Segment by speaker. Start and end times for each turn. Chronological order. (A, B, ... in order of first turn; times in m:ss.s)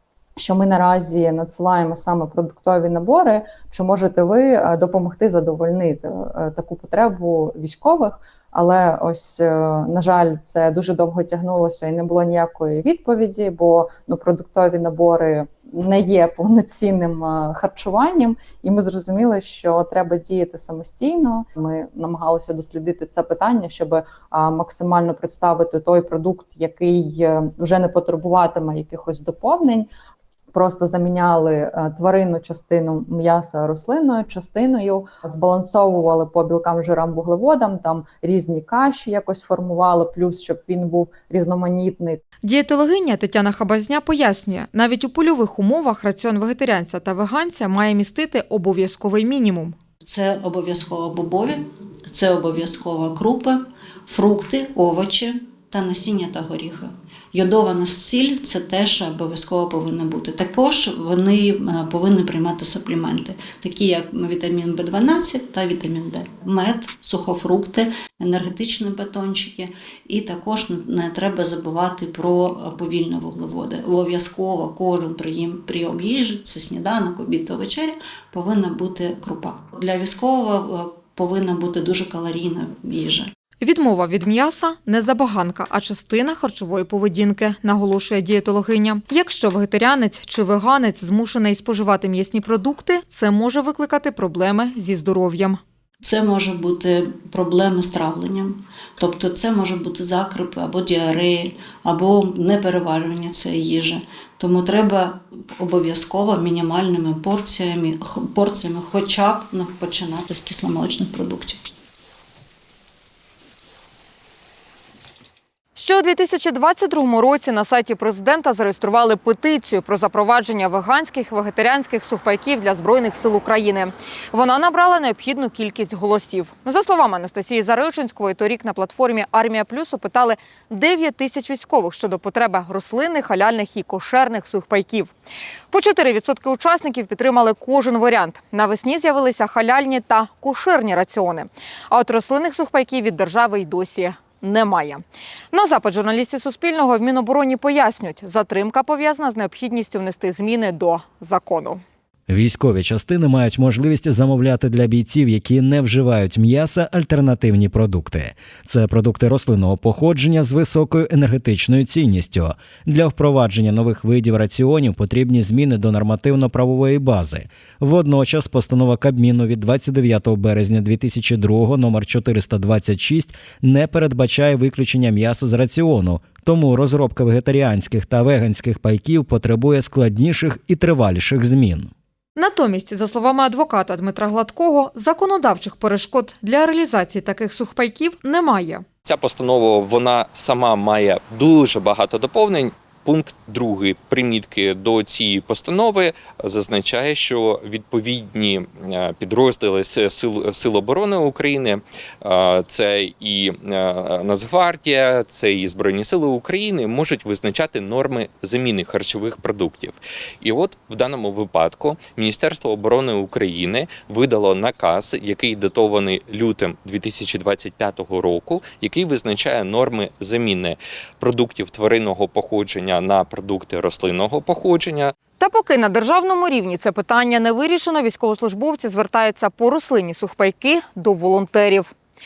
0:00.4-0:29.9 A
0:30.5-0:42.2 A
0:42.4-0:49.8 B
0:50.0-1:23.3 C
1:23.6-1:35.6 B
1:36.0-1:51.6 C
1:55.8-2:15.1 B
2:15.7-2:31.8 B
2:32.3-3:01.9 D
3:02.4-3:08.8 B
3:09.0-3:45.1 E
3:45.4-3:51.9 B